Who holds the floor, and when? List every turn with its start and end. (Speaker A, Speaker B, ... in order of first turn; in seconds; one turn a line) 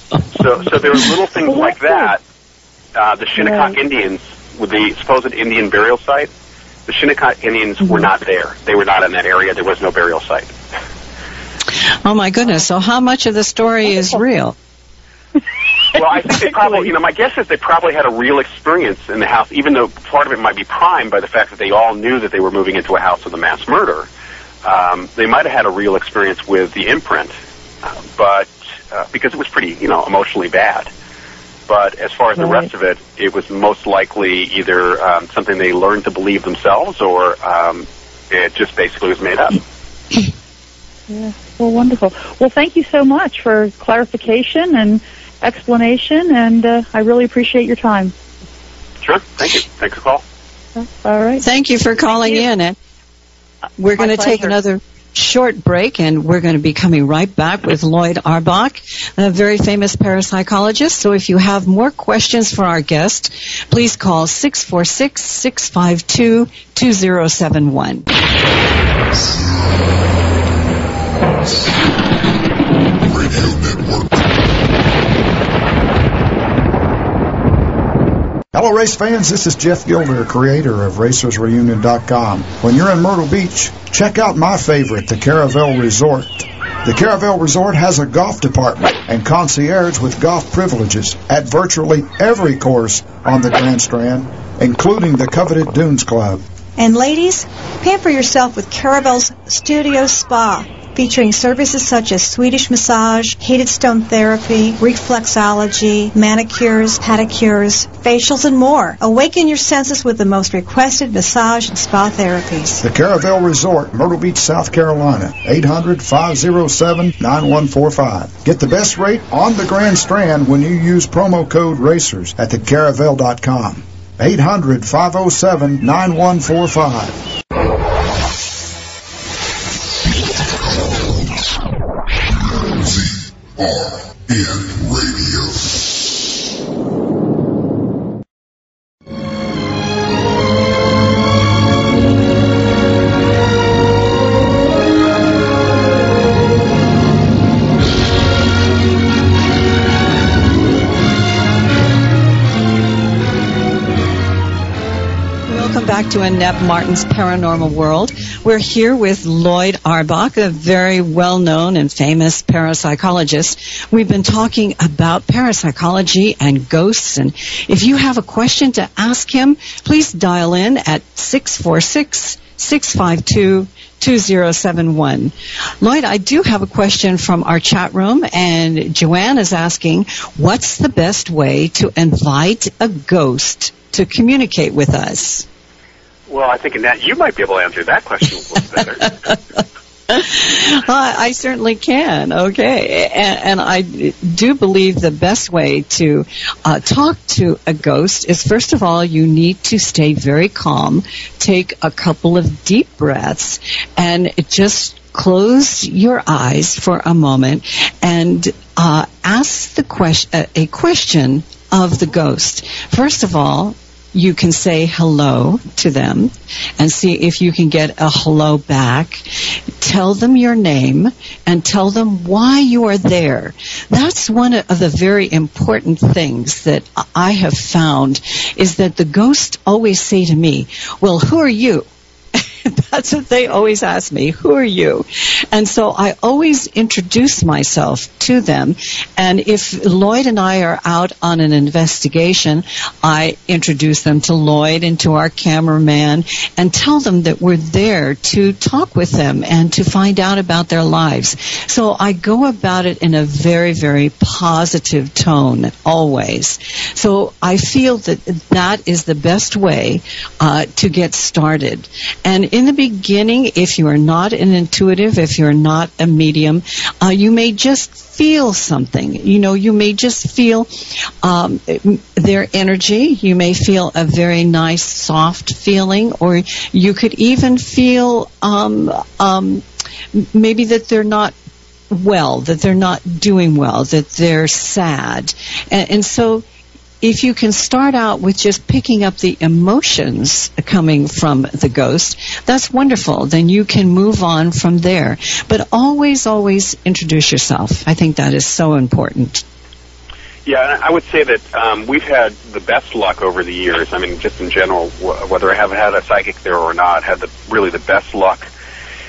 Speaker A: 0.3-2.2
Speaker B: 1.4-2.1
Speaker A: 2.9-6.3
Speaker B: 3.4-3.7
Speaker A: 6.9-10.5
Speaker C: 12.0-14.5
Speaker A: 15.9-24.1
Speaker A: 24.6-27.3
Speaker A: 27.8-30.9
Speaker A: 31.7-39.6
Speaker B: 32.4-32.6
Speaker B: 41.1-48.1
Speaker A: 49.0-50.2
Speaker B: 50.8-51.4
Speaker C: 51.4-52.8
Speaker C: 53.8-68.1
Speaker B: 54.0-54.5
Speaker D: 69.1-70.1
Speaker D: 71.4-71.7
Speaker D: 73.0-74.5
Speaker E: 78.5-96.4
Speaker F: 96.8-112.8
Speaker E: 112.8-127.2
Speaker D: 130.7-131.2
Speaker D: 132.5-135.8
Speaker C: 155.5-185.4
Speaker A: 186.3-189.1
Speaker C: 190.1-231.9
Speaker C: 232.6-281.3
Speaker C: 281.9-286.4
Speaker C: 287.0-299.4
Speaker A: 300.4-308.5